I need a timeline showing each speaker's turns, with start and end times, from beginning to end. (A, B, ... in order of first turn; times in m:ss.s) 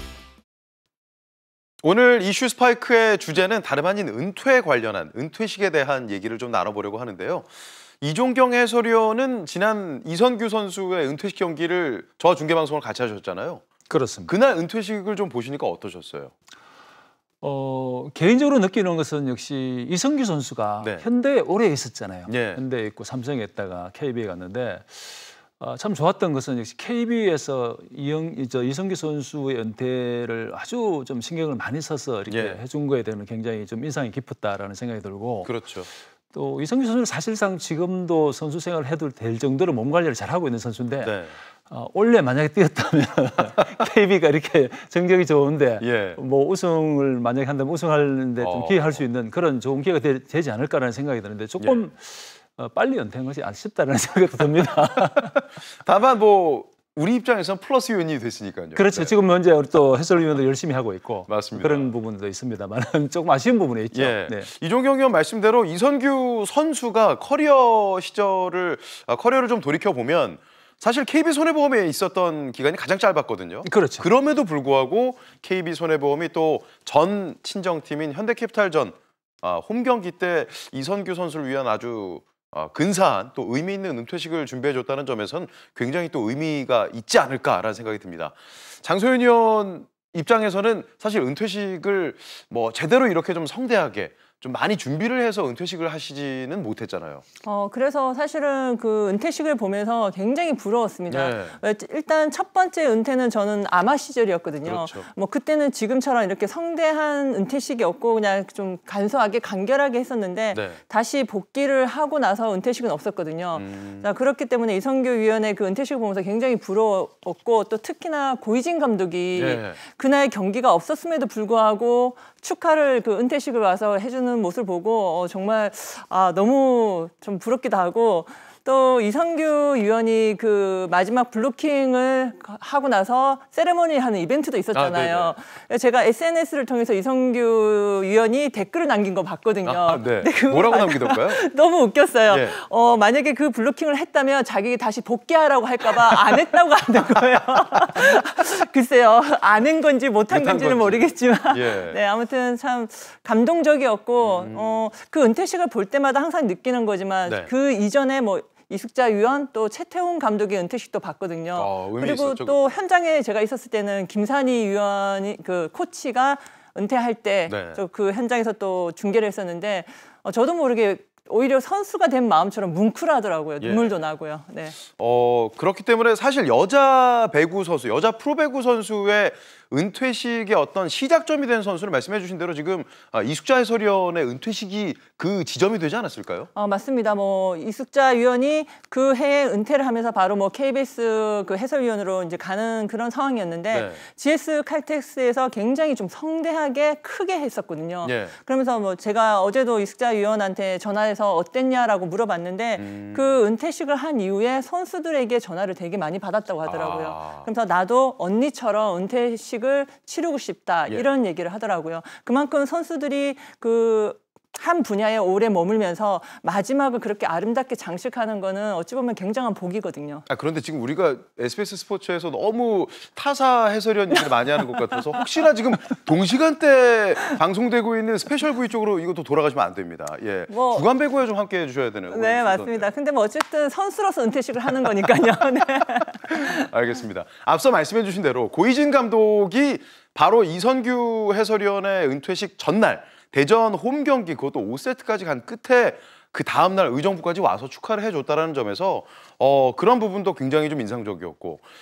0:01.8-0:07.5 A
0:08.0-0:13.6 A
0:13.9-0:14.3 B
0:14.2-0:16.3 A
0:17.4-0:35.5 B
0:20.8-0:21.0 A
0:22.3-0:22.6 A
0:32.3-0:32.6 A
0:35.4-0:35.9 A
0:36.3-0:41.2 B
0:41.0-0:41.4 A
0:41.7-0:55.4 B
0:45.8-0:46.2 A
0:48.4-0:49.0 A
0:51.6-0:51.9 A
0:55.8-0:59.1 A
0:58.7-1:04.5 B
1:01.3-1:01.9 A
1:03.9-1:37.2 A
1:13.6-1:14.1 B
1:37.4-2:54.8 C
1:41.1-1:41.6 A
1:44.6-1:45.1 A
1:50.5-1:50.8 A
1:53.5-1:54.0 A
1:59.4-1:59.8 A
2:14.7-2:15.4 A
2:19.6-2:21.4 A
2:22.3-2:22.6 A
2:30.3-2:32.0 A
2:34.2-2:34.8 A
2:41.6-2:42.7 A
2:47.5-2:47.8 A
2:53.6-2:54.0 A
2:54.9-3:06.5 A
3:06.5-3:40.2 C
3:13.7-3:14.0 A
3:18.0-3:18.3 A
3:22.8-3:23.2 A
3:26.6-3:27.5 A
3:40.3-3:52.9 A
3:50.5-3:50.9 C
3:52.1-3:56.6 C
3:56.3-4:11.6 A